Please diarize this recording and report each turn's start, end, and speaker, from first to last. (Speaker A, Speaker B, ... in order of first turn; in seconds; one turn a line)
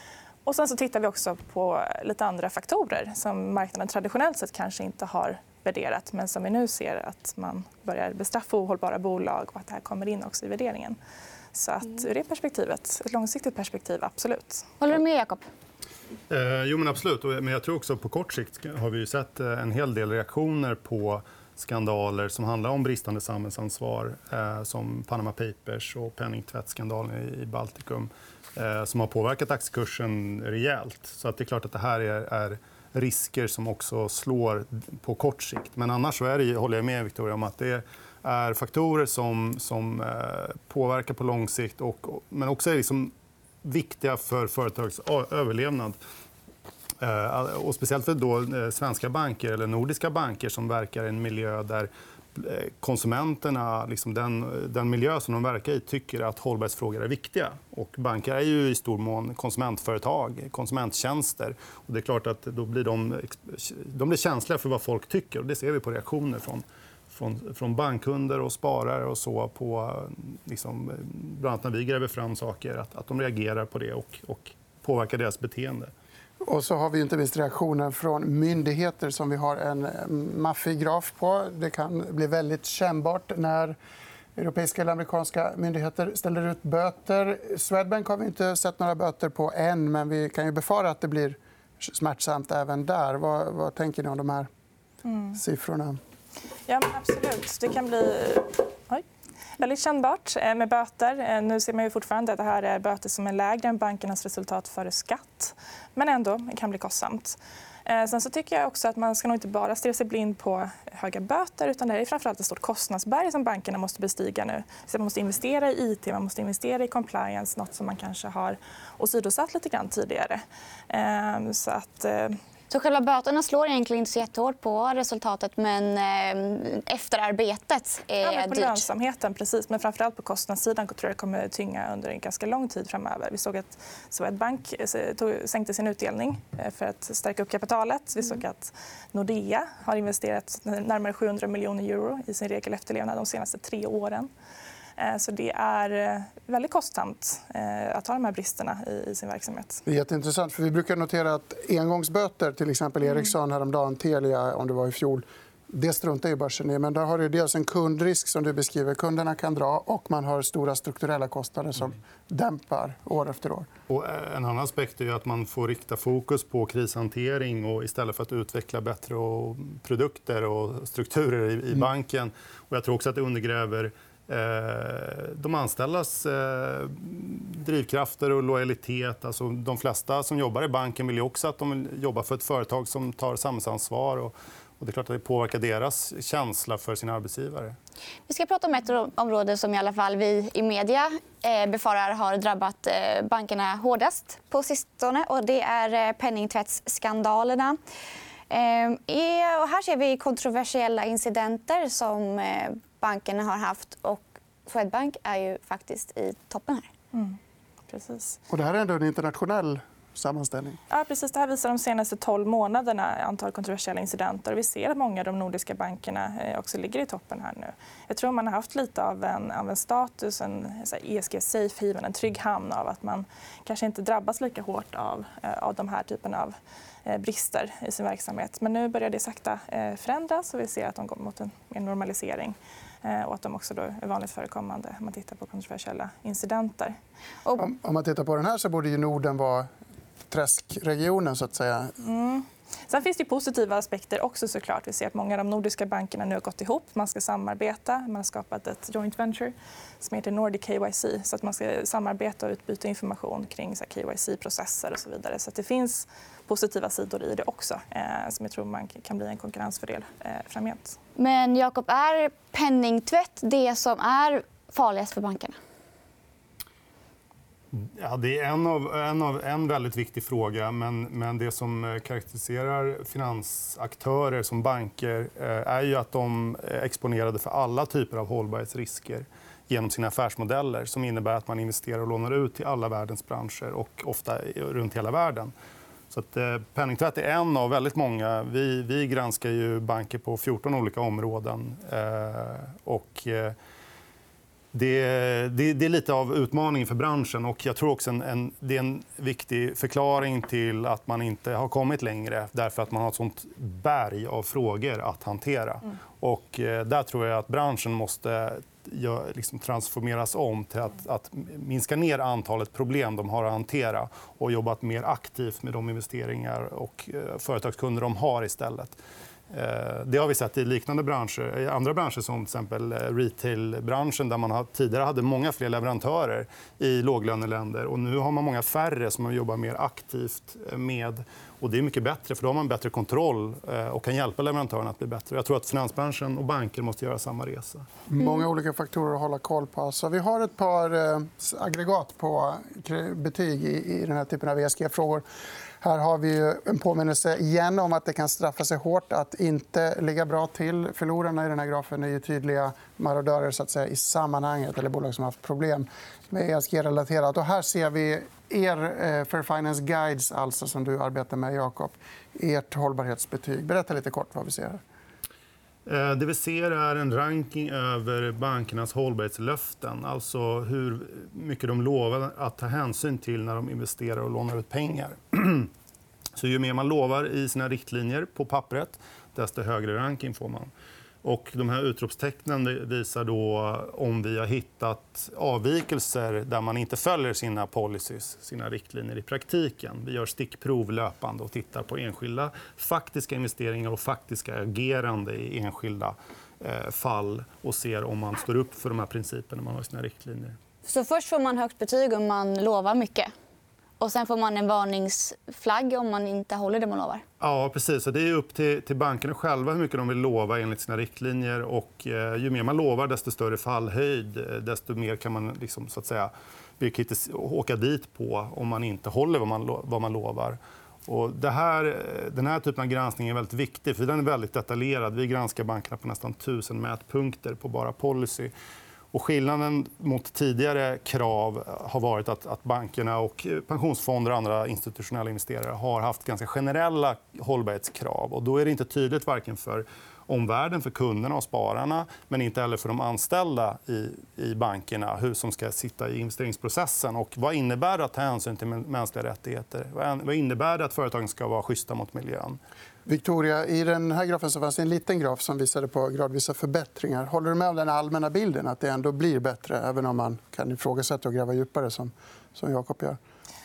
Speaker A: 0.4-11.0
Speaker A: 11.5-14.6
Speaker B: 14.8-15.4
Speaker C: 16.3-43.1
Speaker C: 43.6-46.0
Speaker C: 47.0-75.9
Speaker D: 76.4-83.8
Speaker D: 84.3-94.5
Speaker A: 95.0-95.4
Speaker D: 95.3-96.0
Speaker A: 96.7-99.0
Speaker A: 99.6-122.3
Speaker B: 122.7-128.9
Speaker A: 128.2-144.3
Speaker A: 145.0-149.8
Speaker D: 149.8-163.7
Speaker C: 163.9-187.8
Speaker B: 188.3-197.8
Speaker B: 198.5-206.9
Speaker A: 207.1-207.4
Speaker A: 207.9-208.4
Speaker D: 208.5-210.8
Speaker A: 210.9-226.5
Speaker A: 227.0-237.0
Speaker D: 237.6-239.7
Speaker D: 240.3-241.9
Speaker A: 242.0-261.0
Speaker B: 261.2-265.5
Speaker C: 267.7-285.5
Speaker C: 286.1-293.5
Speaker C: 294.7-319.0
Speaker C: 319.5-337.8
Speaker D: 338.1-345.2
Speaker D: 345.8-364.8
Speaker C: 365.9-375.7
Speaker C: 376.4-380.7
Speaker C: 381.2-400.6
Speaker B: 400.9-403.3
Speaker B: 404.0-407.2
Speaker C: 407.4-428.5
Speaker C: 429.1-452.6
Speaker D: 453.1-463.2